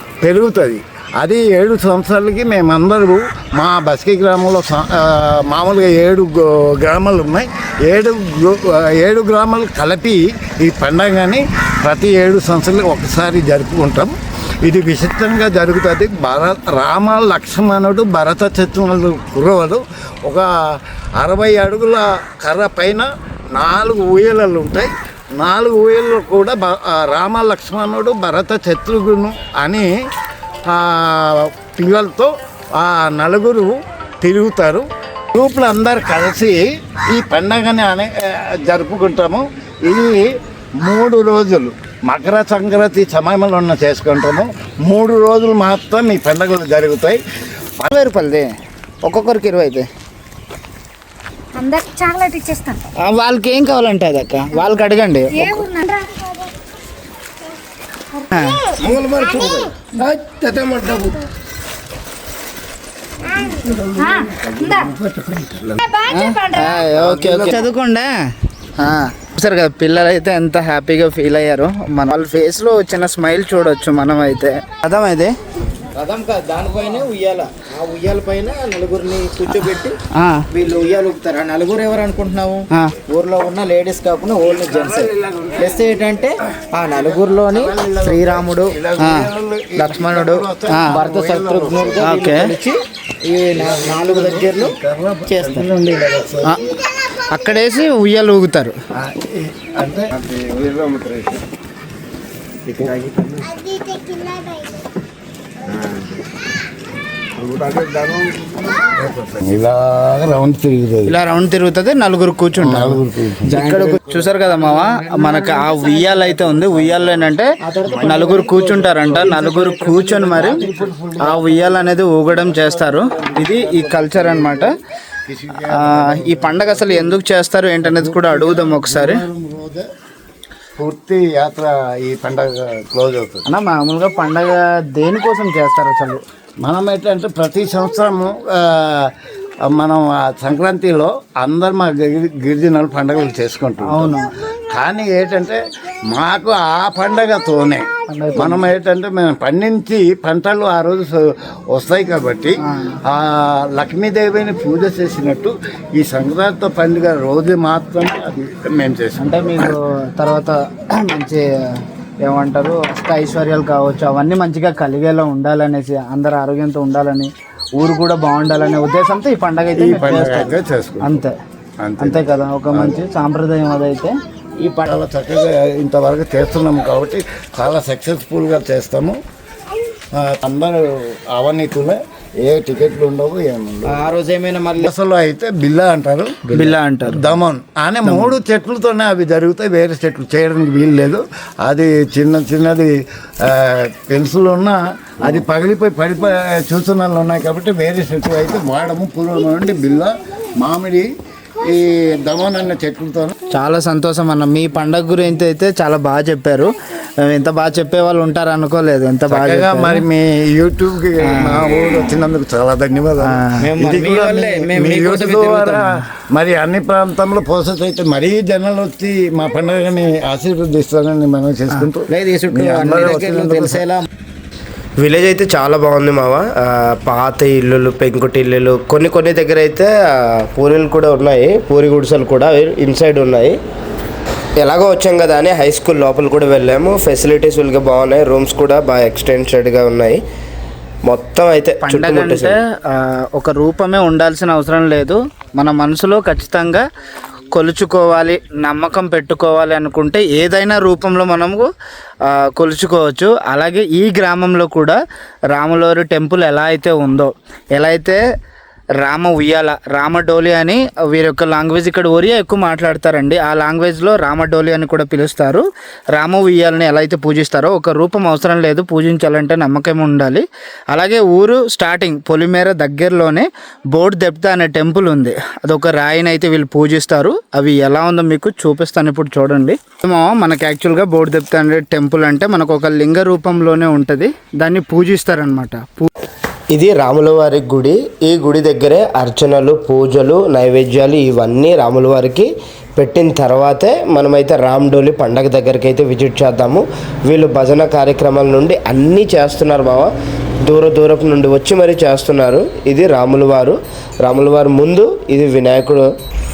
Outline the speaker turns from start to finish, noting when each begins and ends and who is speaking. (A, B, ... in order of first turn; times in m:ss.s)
0:00.2-0:29.9 A
0:30.7-0:40.3 A
0:40.8-0:47.2 A
0:47.9-0:48.5 B
0:49.0-0:49.9 B
0:51.6-0:52.7 C
0:53.0-0:55.7 B
0:55.7-0:56.3 C
0:58.3-0:58.7 B
0:58.8-1:01.2 A
0:59.3-0:59.6 D
1:00.6-1:01.0 D
1:03.6-1:05.8 A
1:05.9-1:06.3 C
1:06.1-1:08.1 B
1:07.0-1:07.5 A
1:08.8-1:15.3 B
1:15.9-1:20.0 E
1:20.1-1:20.4 B
1:20.5-1:28.7 E
1:24.7-1:25.7 A
1:26.9-1:32.1 A
1:29.0-1:31.0 B
1:30.9-1:34.7 E
1:32.0-1:32.5 B
1:33.6-1:36.6 A
1:35.3-1:35.7 E
1:37.3-1:38.7 B
1:39.0-1:41.2 A
1:42.8-1:43.5 E
1:47.6-1:47.9 A
1:48.9-1:51.1 A
1:51.1-2:00.6 B
1:52.6-1:53.5 A
1:53.5-1:56.1 E
1:57.6-2:00.9 E
2:00.3-2:01.8 A
2:01.2-2:04.7 B
2:02.5-2:04.7 A
2:05.3-2:07.2 A
2:05.7-2:09.2 B
2:07.8-2:09.8 A
2:10.8-2:13.4 A
2:13.5-2:16.2 B
2:16.6-2:19.1 A
2:19.7-2:24.2 A
2:23.9-2:24.3 B
2:24.7-2:39.7 A
2:28.1-2:28.6 B
2:32.6-2:33.0 B
2:39.2-2:41.4 B
2:42.2-2:51.3 B
2:49.8-2:51.1 A
2:51.8-2:53.0 A
2:52.0-2:54.9 B
2:54.9-2:59.2 A
3:00.1-3:04.0 A
3:03.8-3:04.9 E
3:04.8-3:06.4 A
3:06.5-3:07.3 B
3:07.0-3:23.3 A
3:23.5-3:30.0 B
3:29.3-3:43.8 A
3:31.2-3:31.6 B
3:33.2-3:33.6 B
3:33.6-3:35.8 E
3:42.1-3:44.0 E
3:45.0-3:53.6 D
3:54.6-4:00.2 D
4:01.0-4:02.6 D
4:01.8-4:06.8 B
4:07.5-4:11.7 B
4:12.3-4:15.0 B
4:15.5-4:18.2 B
4:19.0-4:25.6 B
4:26.1-4:46.1 B
4:46.7-5:00.1 D
5:00.6-5:06.1 D